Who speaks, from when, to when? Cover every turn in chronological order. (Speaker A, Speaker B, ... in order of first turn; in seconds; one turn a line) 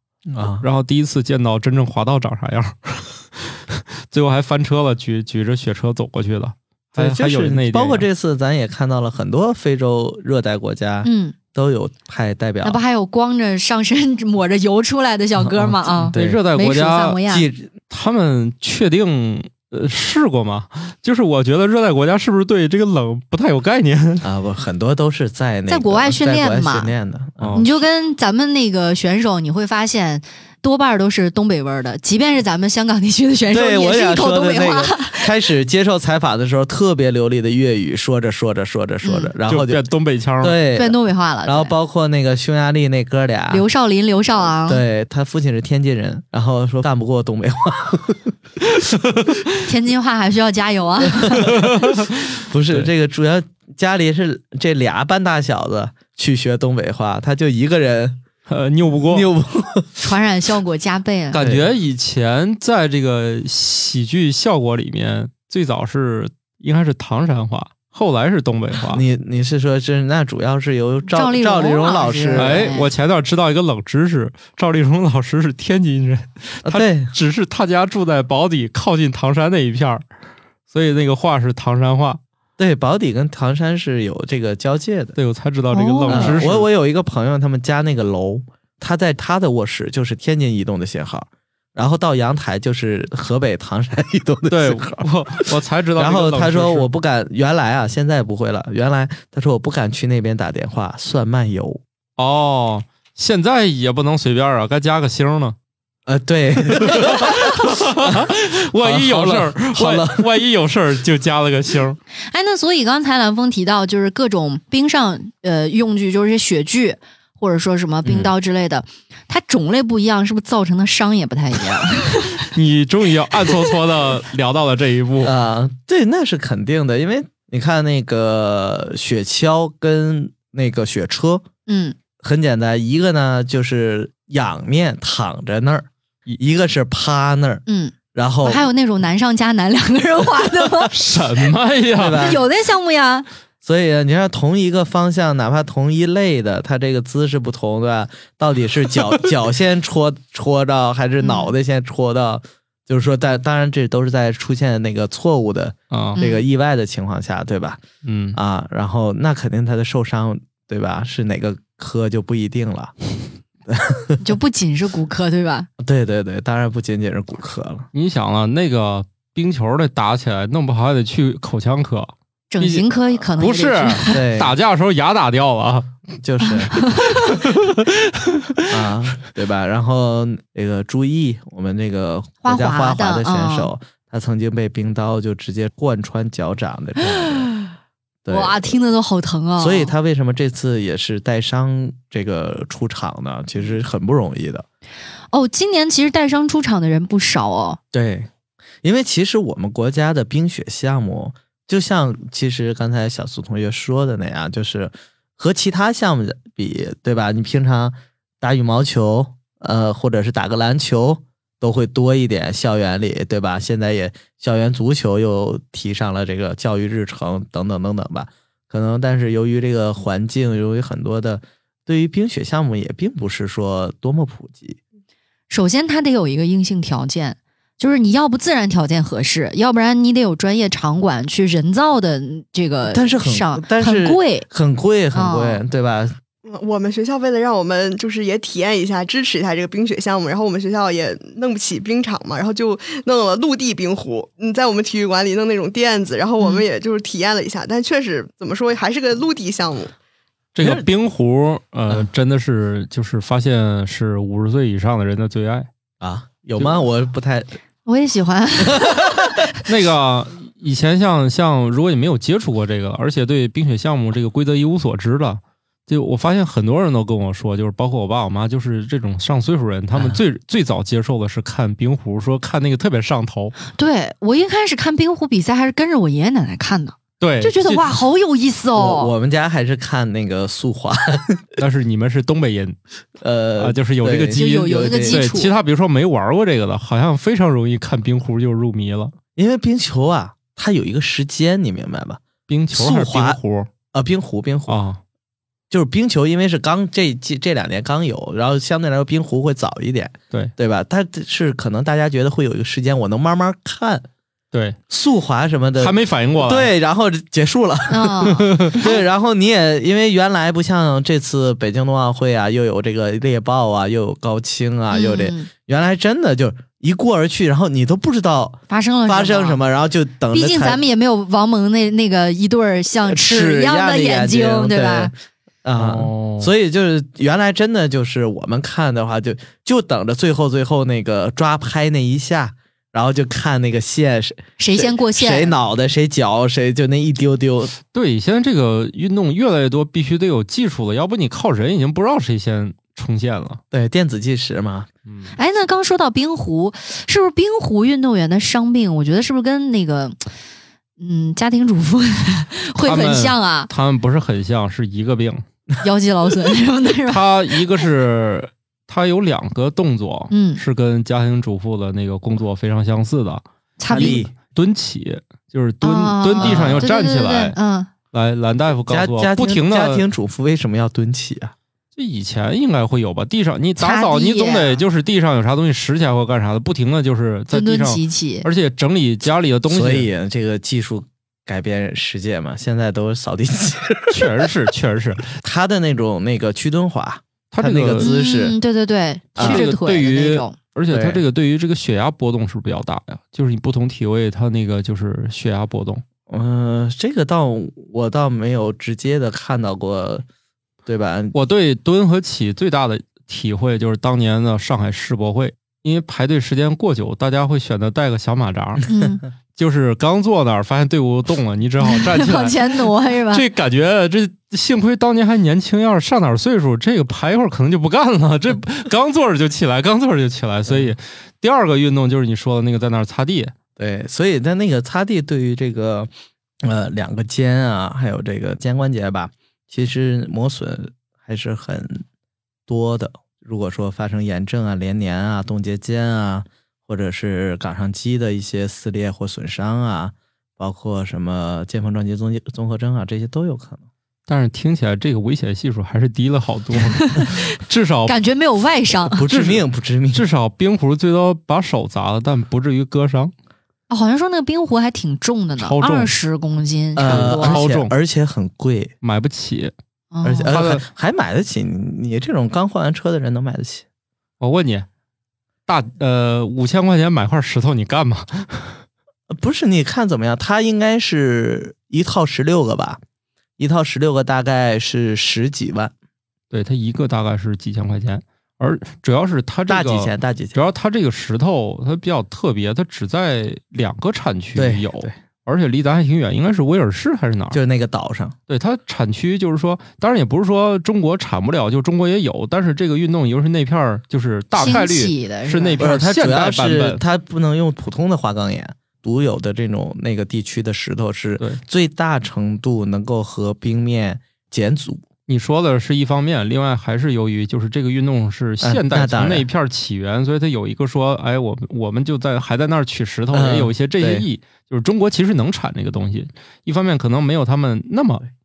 Speaker A: 0.3-0.7
Speaker B: 0.6-8.1
Speaker A: 6.9-12.8
Speaker C: 11.0-11.4
Speaker C: 12.6-17.5
Speaker A: 15.6-16.4
Speaker B: 15.6-17.2
Speaker A: 17.3-17.7
Speaker B: 17.9-24.2
Speaker A: 24.2-27.6
Speaker C: 25.7-26.9
Speaker B: 27.4-27.7
Speaker C: 27.5-35.3
Speaker A: 33.5-39.8
Speaker C: 39.0-39.3
Speaker B: 39.5-40.6
Speaker A: 40.4-43.6
Speaker C: 40.8-41.8
Speaker C: 43.5-44.8
Speaker A: 44.7-48.3
Speaker B: 48.9-49.5
Speaker C: 49.6-51.6
Speaker A: 51.2-51.8
Speaker B: 51.5-52.9
Speaker A: 52.3-58.2
Speaker B: 58.5-59.3
Speaker A: 59.1-59.9
Speaker C: 60.0-61.4
Speaker B: 61.3-69.0
Speaker A: 61.4-61.7
Speaker A: 68.9-72.6
Speaker C: 71.1-72.9
Speaker B: 72.4-80.0
Speaker A: 76.6-77.1
Speaker B: 80.7-82.2
Speaker A: 82.6-85.2
Speaker B: 85.2-86.7
Speaker C: 85.7-86.4
Speaker A: 86.1-101.8
Speaker B: 94.5-96.9
Speaker B: 102.2-105.6
Speaker A: 106.1-110.3
Speaker B: 106.8-112.0
Speaker C: 112.3-122.5
Speaker B: 118.0-118.3
Speaker B: 122.5-125.3
Speaker A: 125.2-131.4
Speaker C: 131.7-132.0
Speaker A: 132.2-138.7
Speaker C: 137.7-141.0
Speaker B: 140.9-142.4
Speaker A: 142.0-142.4
Speaker C: 142.1-143.3
Speaker A: 143.6-157.8
Speaker C: 151.2-151.5
Speaker B: 155.9-156.2
Speaker C: 156.2-156.4
Speaker B: 158.0-158.4
Speaker A: 158.3-162.9
Speaker A: 163.7-164.2
Speaker C: 164.2-165.7
Speaker A: 165.8-167.9
Speaker B: 167.9-175.9
Speaker C: 172.5-174.2
Speaker A: 174.1-174.5
Speaker A: 176.2-176.8
Speaker C: 176.7-177.3
Speaker B: 177.1-178.6
Speaker A: 178.7-187.5
Speaker C: 182.4-183.7
Speaker C: 187.4-187.7
Speaker A: 188.2-188.8
Speaker C: 188.3-189.9
Speaker A: 189.6-194.7
Speaker C: 195.3-197.8
Speaker A: 197.9-198.3
Speaker A: 198.8-224.8
Speaker C: 225.5-234.5
Speaker A: 232.8-236.2
Speaker C: 235.1-235.6
Speaker D: 236.4-249.9
Speaker B: 250.6-255.7
Speaker A: 250.6-250.9
Speaker A: 256.0-257.6
Speaker C: 257.9-259.4
Speaker A: 258.7-259.2
Speaker B: 259.7-273.5
Speaker A: 269.9-270.2
Speaker C: 273.7-279.1
Speaker B: 277.2-277.9
Speaker A: 278.8-281.4
Speaker B: 281.6-282.8
Speaker A: 283.2-285.2
Speaker B: 283.6-289.1
Speaker C: 284.3-285.5
Speaker A: 289.4-293.4
Speaker B: 292.5-293.7
Speaker A: 293.9-294.8
Speaker B: 294.7-295.0
Speaker A: 295.7-304.1
Speaker A: 304.9-320.8
Speaker B: 305.8-306.7
Speaker C: 307.9-309.0
Speaker C: 314.9-315.5
Speaker C: 318.7-319.6
Speaker C: 320.3-325.1
Speaker A: 323.1-325.1
Speaker A: 325.6-337.8
Speaker B: 325.8-326.5
Speaker C: 334.6-335.5
Speaker B: 337.9-343.6
Speaker A: 343.7-344.9
Speaker B: 345.1-345.3
Speaker C: 345.4-350.2
Speaker C: 351.0-353.7
Speaker B: 352.8-355.4
Speaker C: 355.8-357.9
Speaker B: 357.1-367.6
Speaker C: 360.3-360.6
Speaker C: 363.8-364.2
Speaker A: 363.9-364.3
Speaker C: 365.8-367.9
Speaker A: 366.4-366.9
Speaker B: 368.1-370.0
Speaker A: 368.9-371.6
Speaker B: 372.0-380.1
Speaker C: 373.8-374.8
Speaker C: 377.5-378.5
Speaker A: 379.7-384.5
Speaker B: 384.1-385.4
Speaker A: 385.4-388.6
Speaker B: 387.5-388.1
Speaker C: 388.0-390.6
Speaker A: 389.4-389.7
Speaker B: 389.4-396.0
Speaker A: 390.9-391.2
Speaker A: 396.3-400.2
Speaker A: 400.9-401.4
Speaker B: 401.3-408.9
Speaker C: 408.9-409.2
Speaker B: 409.6-423.5
Speaker C: 411.8-413.5
Speaker A: 420.7-420.9
Speaker A: 423.8-426.1
Speaker A: 426.6-432.0
Speaker A: 432.7-443.8
Speaker B: 444.3-448.1
Speaker C: 446.9-447.5
Speaker C: 448.1-449.2
Speaker A: 449.1-450.3
Speaker B: 449.3-453.3
Speaker C: 453.9-457.6
Speaker B: 455.6-456.1
Speaker A: 457.0-458.9
Speaker B: 457.0-457.9
Speaker B: 459.0-459.7
Speaker C: 460.1-460.5
Speaker A: 460.2-463.9
Speaker B: 460.5-460.9
Speaker B: 464.4-464.9
Speaker B: 465.7-468.8
Speaker A: 469.3-473.0
Speaker A: 473.6-475.9
Speaker B: 476.5-487.6
Speaker A: 479.7-480.6
Speaker A: 484.6-485.2
Speaker A: 487.5-488.4
Speaker B: 488.5-497.0
Speaker C: 494.6-495.9
Speaker A: 495.8-505.1
Speaker B: 505.3-518.2
Speaker A: 508.6-509.5
Speaker A: 513.3-514.3